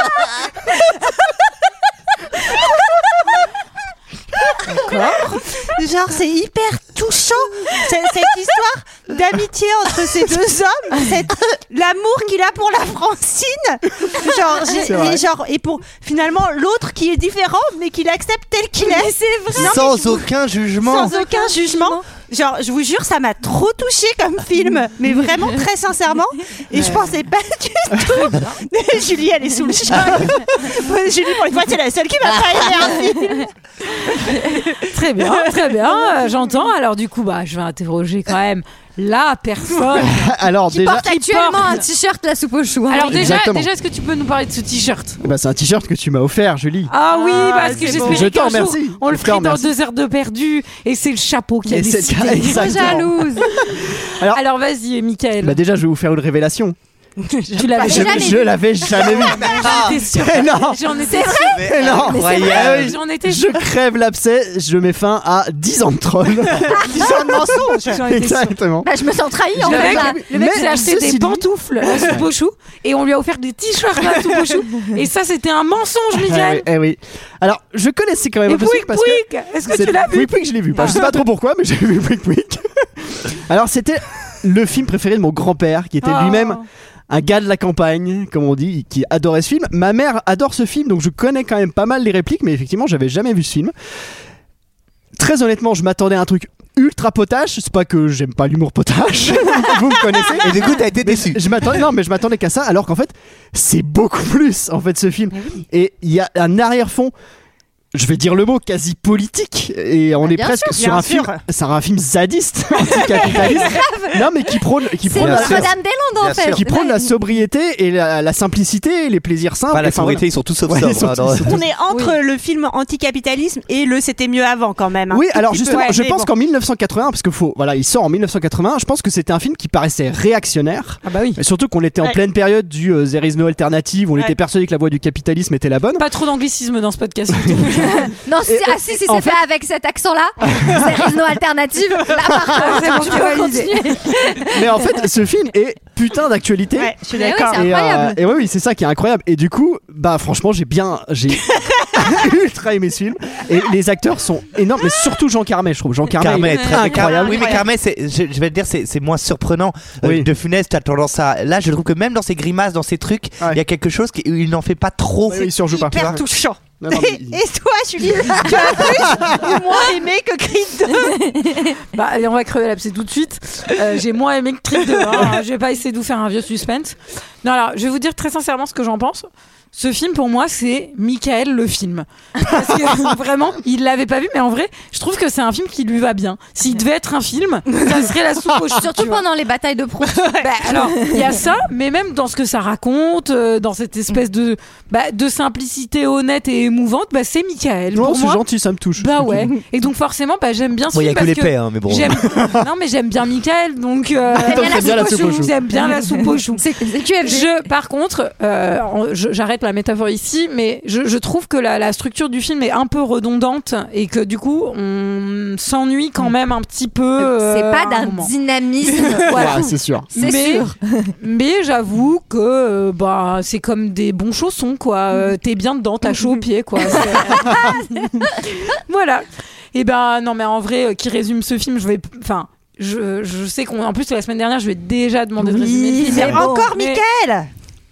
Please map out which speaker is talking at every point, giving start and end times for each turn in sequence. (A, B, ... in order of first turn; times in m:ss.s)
0:04.7-0:05.4 A
0:05.6-0:20.2 B
0:14.8-0:15.2 C
0:18.8-0:20.1 D
0:19.6-0:21.2 E
0:20.8-0:33.5 B
0:21.0-0:22.0 D
0:28.0-0:28.5 A
0:32.3-0:33.4 D
0:34.8-0:40.2 A
0:35.3-0:36.0 B
0:39.9-0:41.1 C
0:40.8-0:43.3 D
0:41.1-0:41.8 A
0:42.9-0:45.2 A
0:43.1-0:43.7 C
0:45.2-0:46.9 C
0:46.9-0:53.2 A
0:47.1-0:48.3 B
0:47.8-0:49.7 C
0:51.7-0:54.4 C
0:52.4-0:53.5 D
0:53.9-0:55.6 A
0:55.4-0:56.8 C
0:57.2-0:58.0 B
0:57.6-0:58.4 A
0:57.8-0:59.2 D
0:57.8-1:00.8 C
0:59.0-1:01.6 A
0:59.6-1:00.0 E
1:00.9-1:02.6 D
1:01.6-1:03.0 E
1:01.6-1:07.3 C
1:02.5-1:03.5 A
1:06.8-1:08.0 B
1:07.9-1:08.9 C
1:07.9-1:08.6 A
1:08.8-1:10.2 D
1:09.5-1:11.5 C
1:09.6-1:16.7 A
1:16.2-1:33.7 C
1:18.5-1:21.1 A
1:26.0-1:26.6 A
1:35.2-1:47.1 C
1:40.4-1:41.4 E
1:47.9-1:55.7 C
1:50.2-1:50.8 D
1:50.7-1:51.4 B
1:53.3-1:54.3 D
1:55.0-1:57.2 D
1:55.2-1:56.6 E
1:56.5-2:01.6 C
1:59.7-2:01.6 E
2:01.5-2:06.3 B
2:05.1-2:16.0 C
2:11.0-2:11.4 A
2:16.0-2:18.1 A
2:17.3-2:17.9 C
2:18.2-2:24.7 D
2:18.4-2:19.4 C
2:22.5-2:23.8 A
2:24.5-2:26.9 C
2:26.8-2:27.6 B
2:27.1-2:28.2 D
2:27.5-2:37.6 C
2:36.2-2:46.2 E
2:36.7-2:37.0 D
2:37.1-2:37.6 B
2:45.3-2:46.2 C
2:45.7-2:51.2 B
2:46.8-2:47.4 C
2:48.4-2:49.6 C
2:51.0-2:51.8 D
2:51.9-3:09.2 A
3:08.7-3:11.3 D
3:10.1-3:10.4 B
3:10.4-3:18.4 A
3:17.9-3:19.5 C
3:19.0-3:26.6 A
3:20.9-3:22.3 E
3:24.4-3:25.6 C
3:24.4-3:27.6 D
3:27.2-3:38.3 A
3:37.2-3:39.5 D
3:39.1-3:47.8 A
3:39.3-3:40.1 C
3:40.1-3:41.1 D
3:47.2-3:47.7 D
3:48.7-3:57.0 A
3:55.4-3:56.5 D
3:56.0-3:57.5 B